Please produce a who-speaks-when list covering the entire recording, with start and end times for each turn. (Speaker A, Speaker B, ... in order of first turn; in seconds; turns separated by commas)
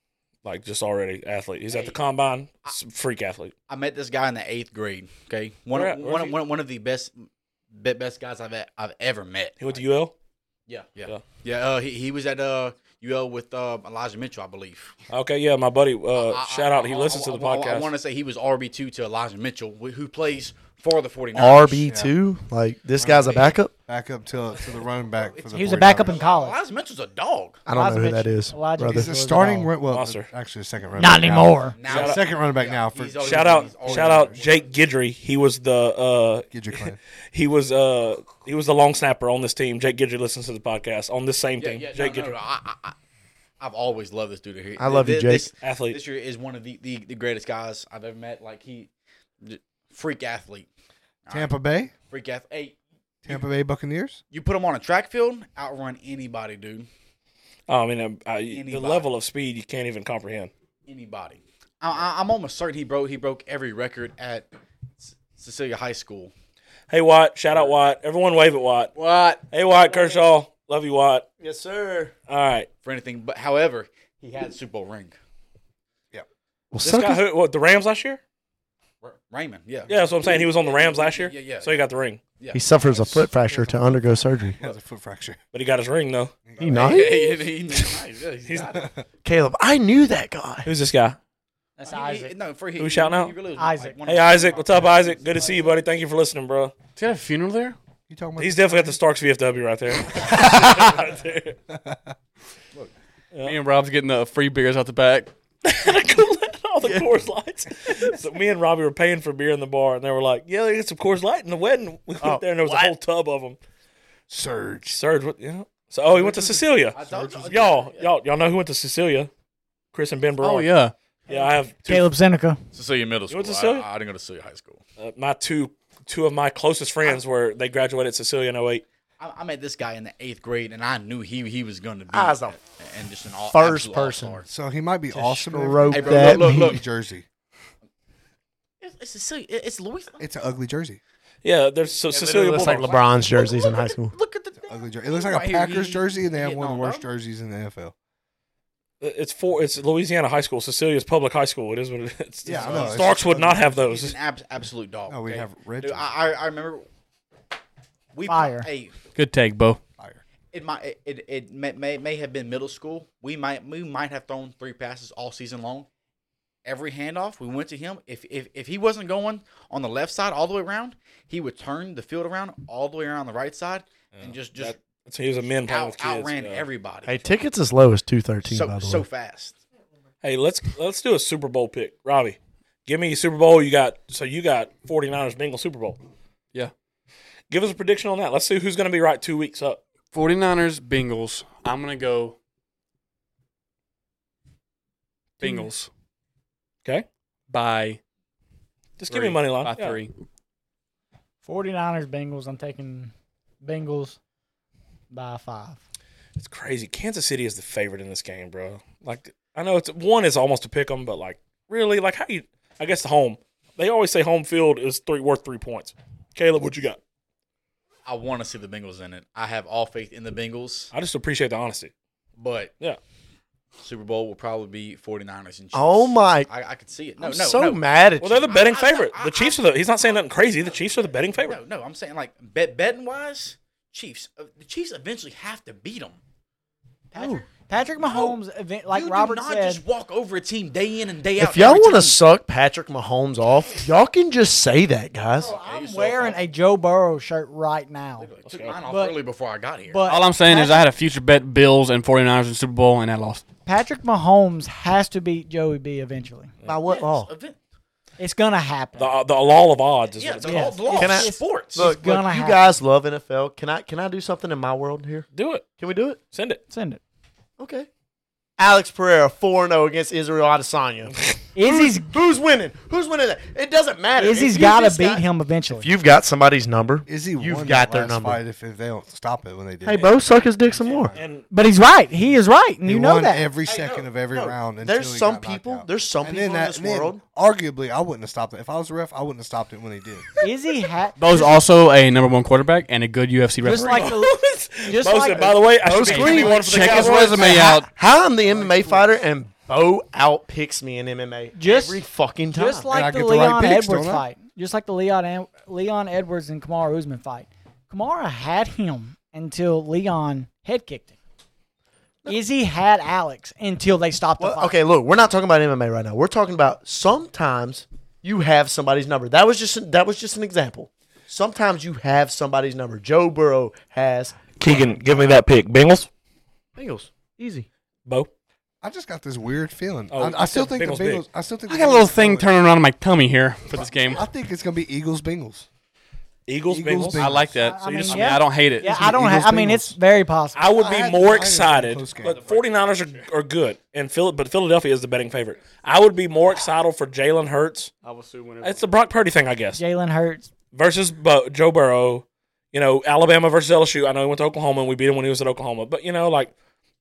Speaker A: 0.4-3.5, Speaker B: 1.7-2.0, Speaker B: 3.7-9.8, Speaker A: 5.7-6.4, Speaker A: 9.6-10.1, Speaker B: 10.7-14.9, Speaker A: 15.1-17.9, Speaker B: 16.1-21.9, Speaker C: 21.3-23.7, Speaker D: 21.9-22.1, Speaker D: 23.0-26.2, Speaker B: 23.0-23.5, Speaker B: 25.1-27.6, Speaker E: 25.5-26.6, Speaker C: 27.6-29.1, Speaker E: 27.7-29.7, Speaker D: 28.8-34.4, Speaker A: 29.9-30.3, Speaker E: 31.0-31.8, Speaker B: 31.7-34.7, Speaker A: 31.9-32.2, Speaker A: 33.2-36.5, Speaker D: 36.5-37.0, Speaker A: 37.3-42.3, Speaker B: 41.6-43.0, Speaker B: 43.6-48.9, Speaker C: 44.8-45.5, Speaker A: 45.6-46.0, Speaker B: 49.4-50.7, Speaker B: 51.2-51.5, Speaker D: 51.3-51.9, Speaker B: 52.1-52.8, Speaker D: 53.2-54.2, Speaker B: 54.3-56.9, Speaker A: 57.7-60.5, Speaker B: 58.5-59.1, Speaker B: 60.9-64.5, Speaker B: 65.0-66.3, Speaker A: 66.9-68.9, Speaker A: 69.5-71.2, Speaker C: 71.4-72.1, Speaker A: 72.3-72.7, Speaker B: 72.8-75.2, Speaker C: 76.7-77.2, Speaker A: 76.8-78.2, Speaker B: 79.0-81.8, Speaker A: 79.9-82.2, Speaker B: 82.4-83.3, Speaker C: 82.5-84.6, Speaker D: 83.5-85.4, Speaker A: 85.5-86.3, Speaker D: 86.5-87.0, Speaker C: 86.6-87.5, Speaker B: 86.6-88.9, Speaker A: 88.5-88.7, Speaker D: 88.7-89.0, Speaker C: 89.2-90.7, Speaker A: 90.6-91.2, Speaker E: 91.8-92.3, Speaker B: 91.8-95.7, Speaker A: 92.8-93.3, Speaker E: 93.6-94.0, Speaker A: 94.0-96.7, Speaker F: 97.0-97.8, Speaker D: 98.1-99.0, Speaker A: 98.4-101.6, Speaker D: 100.3-100.6, Speaker D: 101.7-102.1, Speaker F: 103.4-105.3, Speaker A: 105.6-113.6, Speaker C: 112.2-112.9, Speaker D: 114.3-115.0, Speaker A: 114.9-119.3, Speaker D: 116.1-117.6, Speaker B: 116.9-118.1, Speaker A: 119.9-120.7, Speaker F: 120.4-120.9, Speaker A: 121.3-122.1, Speaker E: 121.3-122.6, Speaker B: 122.7-124.8, Speaker A: 123.3-123.8, Speaker A: 125.0-128.8, Speaker B: 129.2-134.5, Speaker C: 132.1-132.6, Speaker C: 133.5-134.4, Speaker D: 134.5-137.2, Speaker C: 135.1-136.8, Speaker B: 135.9-136.8, Speaker B: 138.8-140.2, Speaker D: 140.2-141.0, Speaker A: 141.4-143.0, Speaker C: 142.1-144.1, Speaker B: 142.8-147.1, Speaker D: 144.7-147.9, Speaker A: 149.0-154.1, Speaker D: 152.4-153.7, Speaker B: 152.5-153.1, Speaker B: 153.7-156.8, Speaker D: 155.1-156.1, Speaker B: 158.1-158.9, Speaker E: 158.2-158.7, Speaker F: 159.1-159.8, Speaker B: 160.5-165.9, Speaker B: 166.6-174.8, Speaker A: 174.1-176.7, Speaker B: 175.6-177.3, Speaker C: 177.1-179.0, Speaker B: 178.4-179.6, Speaker A: 180.2-186.0, Speaker A: 187.5-189.8, Speaker F: 190.1-192.3, Speaker F: 195.4-195.9, Speaker F: 197.5-198.0, Speaker A: 199.0-200.0, Speaker F: 199.1-200.1, Speaker E: 201.4-204.2, Speaker E: 205.1-205.8, Speaker A: 206.4-217.0, Speaker B: 218.1-220.9, Speaker A: 220.9-221.9, Speaker B: 222.4-222.7, Speaker B: 223.8-227.8, Speaker C: 225.7-226.5, Speaker C: 227.2-228.5, Speaker A: 228.2-231.6, Speaker B: 228.4-229.6, Speaker B: 231.3-236.2, Speaker E: 237.1-239.8, Speaker C: 237.2-237.4, Speaker B: 238.0-242.2, Speaker C: 241.4-245.5, Speaker E: 245.4-248.3, Speaker B: 245.4-246.4, Speaker B: 248.2-250.0, Speaker A: 248.4-248.8, Speaker E: 248.8-249.2, Speaker E: 249.9-250.9, Speaker F: 250.1-253.4, Speaker E: 253.7-256.5, Speaker C: 256.6-257.3, Speaker B: 256.8-257.6, Speaker E: 258.2-259.1, Speaker A: 259.0-260.6, Speaker B: 260.1-261.9, Speaker E: 260.4-262.6, Speaker C: 260.9-265.3, Speaker A: 265.3-265.6, Speaker C: 265.8-266.2, Speaker A: 266.3-266.6, Speaker E: 266.7-267.0, Speaker C: 267.6-267.9, Speaker C: 268.6-278.4, Speaker E: 271.5-272.1, Speaker E: 274.1-275.9, Speaker D: 277.1-280.1, Speaker C: 279.8-281.1, Speaker D: 280.9-281.2, Speaker A: 281.1-281.4, Speaker E: 281.5-283.4, Speaker D: 282.8-290.2, Speaker B: 283.7-284.0, Speaker C: 284.3-287.2, Speaker E: 290.4-291.6, Speaker F: 291.2-294.1, Speaker E: 293.6-295.6, Speaker A: 293.9-297.6, Speaker C: 295.8-302.9, Speaker F: 295.9-297.9, Speaker E: 301.5-311.1, Speaker D: 302.9-304.2, Speaker E: 312.3-314.8, Speaker C: 314.4-324.4, Speaker A: 324.6-326.1, Speaker C: 326.8-327.7, Speaker D: 328.8-332.5, Speaker A: 330.1-331.2, Speaker F: 331.7-334.3, Speaker D: 333.7-335.7, Speaker A: 336.5-337.2, Speaker D: 336.6-337.6, Speaker F: 337.2-339.8, Speaker E: 337.6-340.6, Speaker A: 337.8-338.4, Speaker A: 340.5-347.9, Speaker D: 340.7-342.4, Speaker F: 348.0-348.8, Speaker A: 348.6-349.8, Speaker E: 349.8-350.5, Speaker A: 350.7-356.5